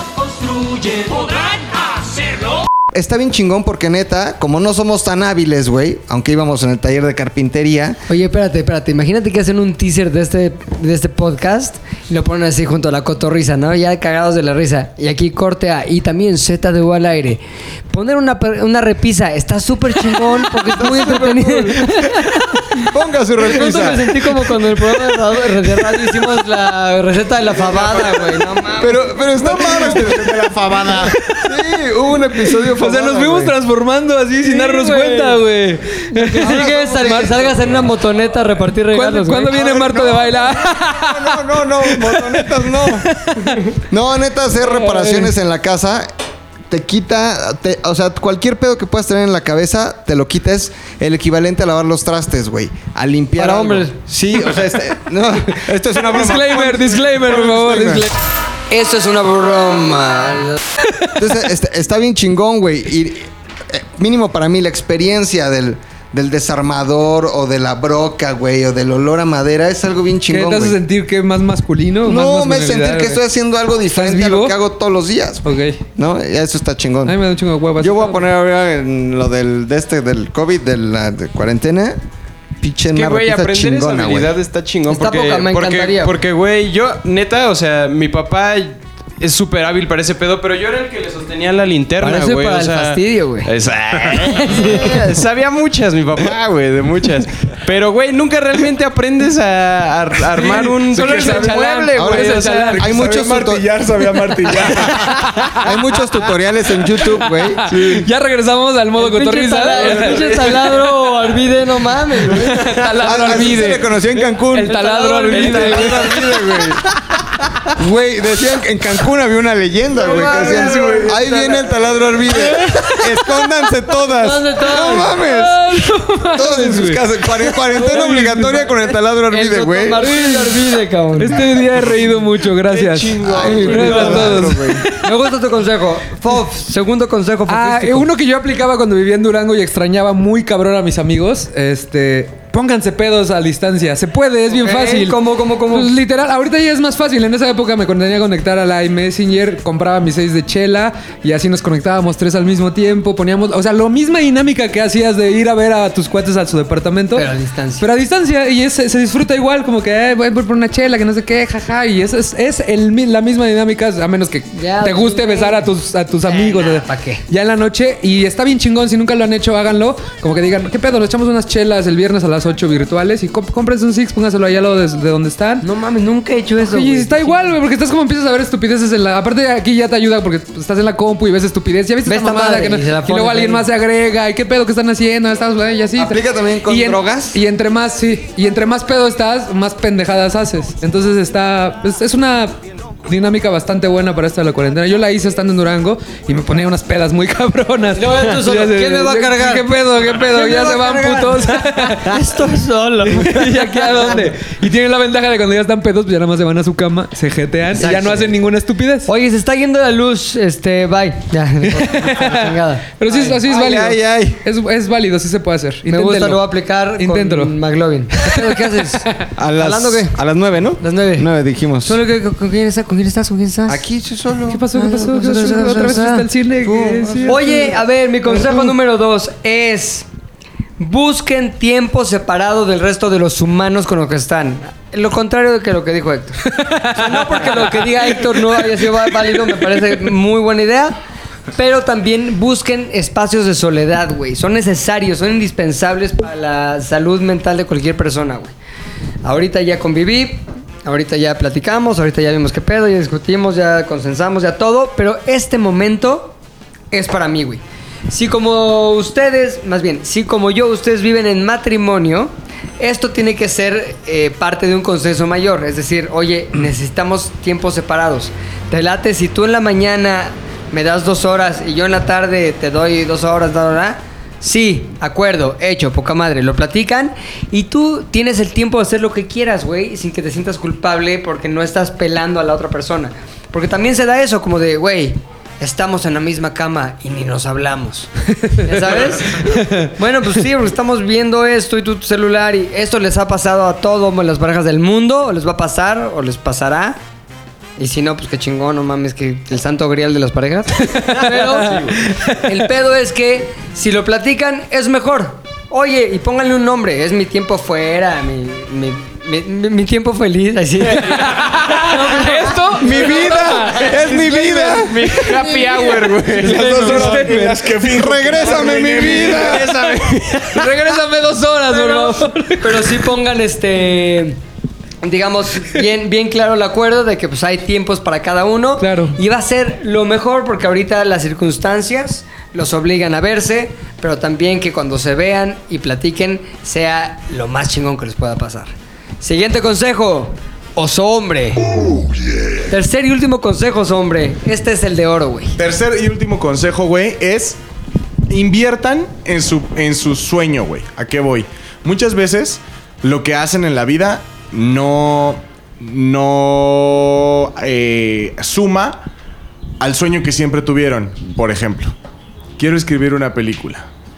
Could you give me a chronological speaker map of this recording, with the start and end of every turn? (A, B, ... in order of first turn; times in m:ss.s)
0:02.9-0:08.0 A
0:08.1-0:22.6 B
0:20.6-0:22.0 A
0:22.8-0:24.3 A
0:23.4-0:29.2 B
0:28.8-0:33.5 A
0:29.3-0:31.1 C
0:31.2-0:31.5 D
0:32.6-0:37.2 D
0:32.9-0:33.4 E
0:34.5-0:35.3 E
0:36.1-0:39.6 B
0:36.4-0:37.6 A
0:38.9-0:43.7 D
0:39.5-0:43.1 A
0:43.8-0:46.1 A
0:44.7-0:45.3 D
0:46.7-0:58.1 A
0:53.4-0:54.0 B
0:55.6-0:58.1 D
0:58.7-1:00.6 B
1:01.2-1:10.8 A
1:10.3-1:13.2 D
1:12.0-1:17.2 A
1:13.9-1:14.5 D
1:15.4-1:15.8 D
1:17.0-1:18.2 D
1:17.8-1:22.0 A
1:22.6-1:24.3 A
1:22.9-1:42.8 E
1:24.9-1:26.1 B
1:32.0-1:33.5 B
1:34.1-1:35.0 B
1:40.3-1:42.9 D
1:40.9-1:41.5 C
1:41.9-1:43.7 A
1:42.7-1:45.1 C
1:44.6-1:47.8 A
1:45.3-1:45.7 D
1:47.0-1:50.9 D
1:47.8-1:48.0 E
1:49.0-1:52.6 B
1:52.2-1:56.4 D
1:53.0-1:54.8 A
1:54.6-1:56.3 B
1:55.3-1:56.7 E
1:55.4-1:56.8 A
1:57.7-2:10.0 A
2:00.0-2:02.0 B
2:00.0-2:01.2 E
2:02.6-2:03.2 D
2:04.1-2:05.2 B
2:05.1-2:08.7 D
2:09.3-2:11.4 B
2:10.0-2:15.1 D
2:12.6-2:14.5 E
2:13.2-2:14.8 A
2:13.4-2:14.4 B
2:15.0-2:18.1 B
2:17.5-2:37.3 D
2:24.5-2:25.9 B
2:37.1-2:37.9 B
2:37.8-2:55.6 D
2:44.5-2:45.6 B
2:46.2-2:47.2 B
2:55.6-2:57.6 B
2:56.6-3:22.4 D
3:02.0-3:03.6 B
3:06.0-3:07.4 A
3:17.9-3:19.7 B
3:20.3-3:24.3 B
3:23.1-3:29.1 D
3:27.7-3:28.4 B
3:29.0-3:33.4 B
3:31.7-3:36.4 D
3:33.4-3:34.4 A
3:35.9-3:39.0 B
3:37.0-3:37.5 D
3:38.2-3:39.2 D
3:39.4-3:42.0 A
3:39.6-3:40.1 B
3:40.8-3:41.3 B
3:41.8-3:43.8 B
3:43.7-3:44.7 A
3:44.5-3:47.8 D
3:44.7-3:46.3 B
3:46.6-3:47.6 A
3:47.2-3:50.1 B
3:50.8-4:01.0 B
3:56.4-3:59.9 D
4:01.5-4:08.5 B
4:09.2-4:16.4 B
4:16.9-4:57.0 B
4:48.5-4:48.8 D
4:49.3-4:49.9 D
4:57.8-5:13.2 B
5:00.9-5:02.5 D
5:01.6-5:01.9 E
5:10.9-5:17.7 D
5:12.8-5:15.0 A
5:13.0-5:17.2 E
5:16.4-5:16.8 B
5:16.4-5:19.6 C
5:16.4-5:19.8 A
5:18.6-5:20.7 E
5:20.4-5:23.1 D
5:21.7-5:24.4 B
5:25.0-5:41.9 B
5:28.8-5:29.2 D
5:42.6-5:45.6 B
5:45.6-5:47.6 C
5:48.3-5:59.0 C
5:59.8-6:01.9 C
6:02.6-6:03.9 C